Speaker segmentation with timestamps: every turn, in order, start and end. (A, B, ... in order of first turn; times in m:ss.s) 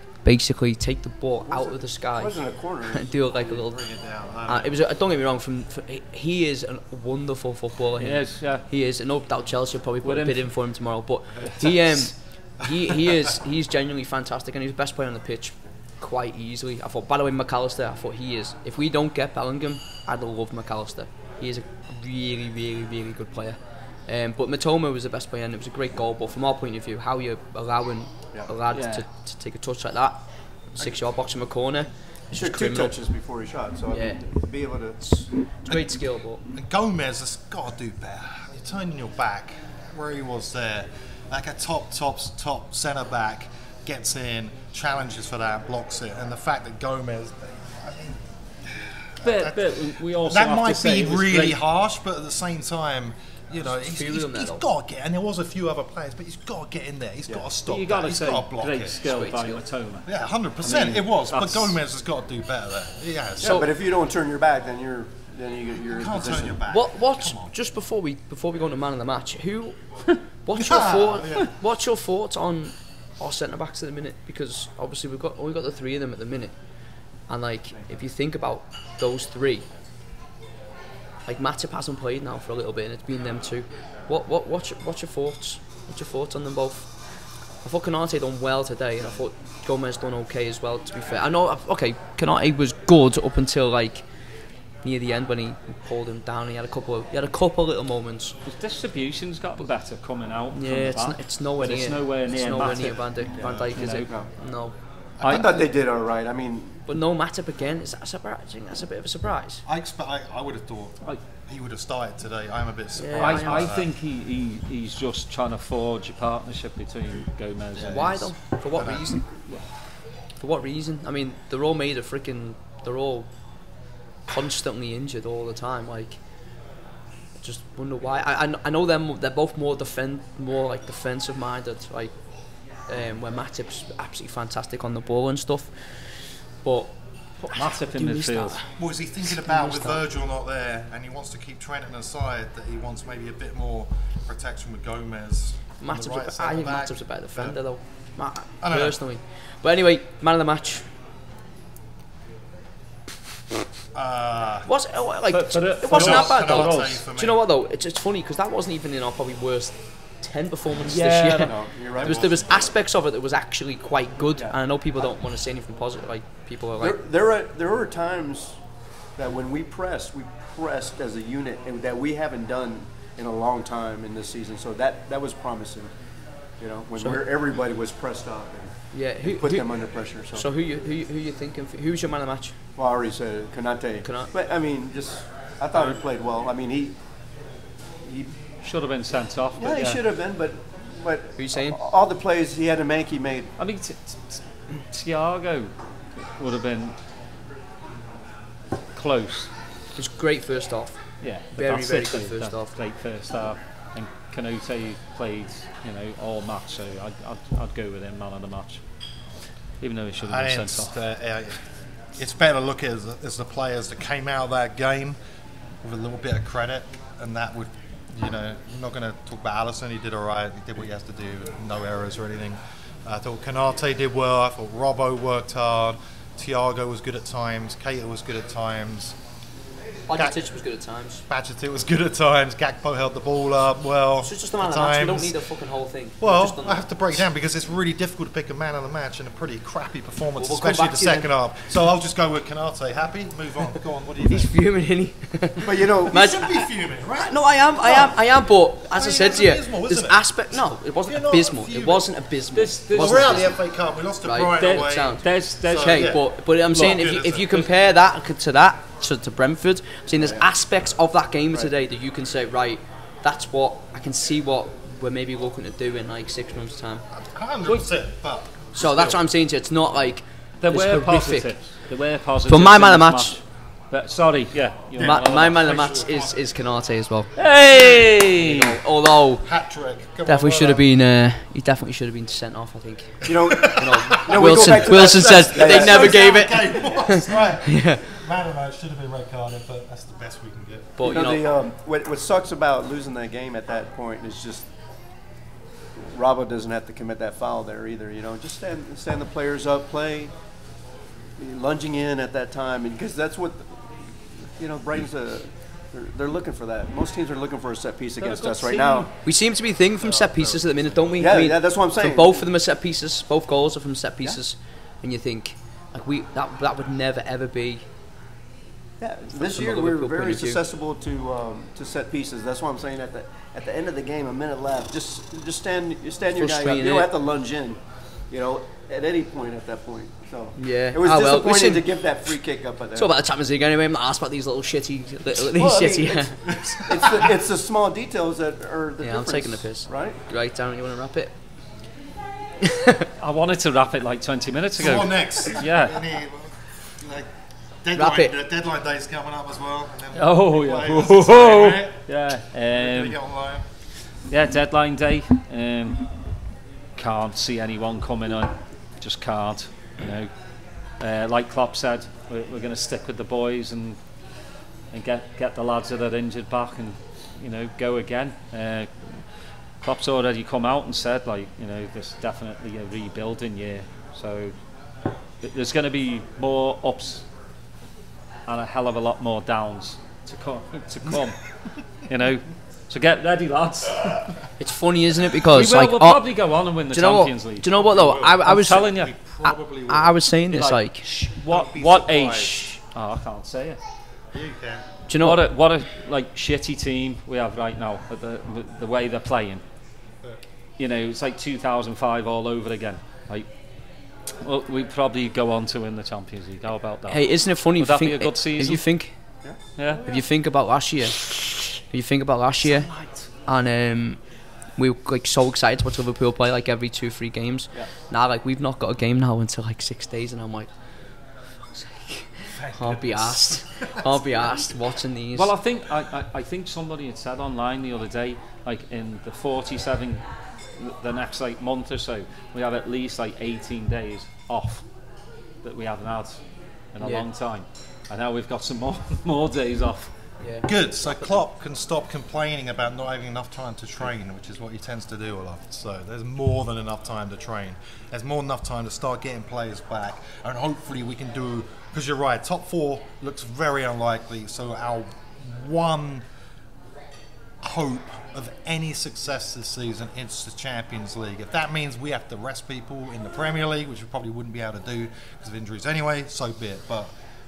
0:00.2-0:03.8 A
0:01.5-0:03.4 B
0:03.5-0:04.8 C
0:04.4-0:32.9 A
0:08.0-0:08.6 D
0:10.0-0:10.5 D
0:12.8-0:13.1 C
0:28.7-0:29.0 D
0:32.3-0:35.0 B
0:33.9-0:34.2 A
0:35.0-0:36.4 A
0:35.7-0:59.0 C
0:49.2-0:51.6 D
0:53.7-0:54.6 A
0:57.6-1:01.7 D
0:59.0-0:59.6 A
1:00.0-1:03.6 C
1:03.4-1:06.6 B
1:05.8-1:07.5 C
1:06.7-1:16.6 A
1:10.5-1:11.5 C
1:17.3-1:19.7 A
1:21.3-1:26.9 A
1:27.6-1:34.0 A
1:34.8-1:38.3 A
1:38.4-1:44.1 D
1:40.5-1:44.7 A
1:43.2-1:43.8 C
1:43.4-1:44.3 B
1:45.2-1:45.6 C
1:45.2-1:45.6 D
1:45.2-1:46.8 B
1:46.9-1:49.6 A
1:49.6-1:53.9 C
1:53.0-1:53.7 A
1:53.2-1:58.2 D
1:57.8-1:59.1 C
1:57.8-1:59.6 A
2:00.4-2:03.3 A
2:04.3-2:06.2 A
2:07.4-2:12.2 A
2:12.8-2:16.0 A
2:16.6-2:18.6 A
2:17.5-2:18.6 D
2:18.6-2:27.6 C
2:19.2-2:20.0 A
2:25.8-2:30.8 A
2:28.6-2:29.0 C
2:33.9-2:34.7 C
2:34.6-2:47.0 A
2:35.3-2:37.0 D
2:35.8-2:37.4 C
2:40.8-2:42.3 B
2:42.0-2:42.7 C
2:46.8-2:48.6 B
2:49.1-2:55.9 B
2:56.6-3:00.5 B
2:58.9-3:02.5 A
3:02.8-3:06.9 B
3:04.0-3:04.3 A
3:08.0-3:08.3 B
3:08.6-3:10.0 D
3:09.6-3:13.5 B
3:11.4-3:11.8 A
3:13.6-3:17.0 D
3:18.9-3:19.5 D
3:19.9-3:21.0 A
3:21.2-3:28.8 D
3:21.6-3:22.7 A
3:29.8-3:30.9 D
3:30.2-3:31.6 C
3:32.2-3:35.2 C
3:35.8-3:49.2 C
3:50.1-3:51.2 A
3:50.1-3:50.4 C
3:51.3-3:55.3 C
3:54.2-3:56.9 A
3:56.2-4:04.5 C
4:00.4-4:01.3 A
4:04.2-4:13.6 A
4:05.6-4:06.2 B
4:06.1-4:08.2 C
4:08.9-4:10.6 C
4:11.1-4:12.1 C
4:12.5-4:13.5 D
4:12.9-4:17.7 C
4:14.2-4:27.0 A
4:14.6-4:16.1 D
4:16.7-4:17.1 D
4:20.2-4:20.5 B
4:27.1-4:29.2 C
4:28.7-4:31.5 A
4:30.6-4:35.6 D
4:32.5-4:33.4 A
4:34.9-4:36.4 C
4:35.0-4:37.3 A
4:37.4-4:38.8 D
4:38.3-4:39.5 A
4:39.4-4:40.8 C
4:40.2-4:48.0 A
4:43.2-4:46.5 B
4:43.2-4:51.0 C
4:51.0-4:51.4 A
4:51.0-4:54.7 B
4:56.0-5:00.3 B
5:01.4-5:09.1 B
5:08.2-5:09.1 D
5:09.2-5:17.8 A
5:10.0-5:11.2 C
5:11.2-5:12.4 B
5:19.0-5:33.1 B
5:19.4-5:20.6 A
5:26.3-5:27.1 A
5:30.6-5:32.0 A
5:32.9-5:36.5 A
5:35.4-5:40.2 B
5:36.5-5:37.3 C
5:39.0-5:41.3 A
5:42.6-5:43.1 A
5:43.2-5:46.0 D
5:44.8-5:47.3 C
5:47.8-5:52.0 C
5:48.0-5:48.3 A
5:50.1-5:53.2 D
5:52.7-5:53.6 C
5:54.3-5:56.1 D
5:57.0-6:00.3 D
6:01.0-6:04.0 D
6:04.9-6:09.2 D
6:09.8-6:14.5 D
6:15.4-6:17.2 D
6:18.5-6:21.4 D
6:22.1-6:24.4 D
6:24.6-6:26.2 A
6:25.4-6:27.7 D
6:26.9-6:31.0 A
6:27.6-6:30.1 C
6:28.4-6:29.1 D
6:30.5-6:33.8 D
6:31.5-6:32.6 C
6:34.3-6:34.8 C
6:35.1-6:35.4 A
6:35.2-6:39.6 D
6:40.8-6:43.5 D
6:44.4-6:48.8 D
6:47.1-6:49.2 A
6:49.8-6:50.0 D
6:50.0-6:52.9 A
6:52.6-6:53.2 D
6:53.4-6:54.2 A
6:54.8-7:00.7 A
7:01.7-7:05.5 A
7:02.6-7:04.2 C
7:05.3-7:10.2 D
7:10.8-7:14.8 D
7:15.6-7:16.4 D
7:16.9-7:20.1 D
7:17.0-7:17.3 A
7:20.4-7:20.7 A
7:20.6-7:36.2 C
7:37.6-7:47.1 C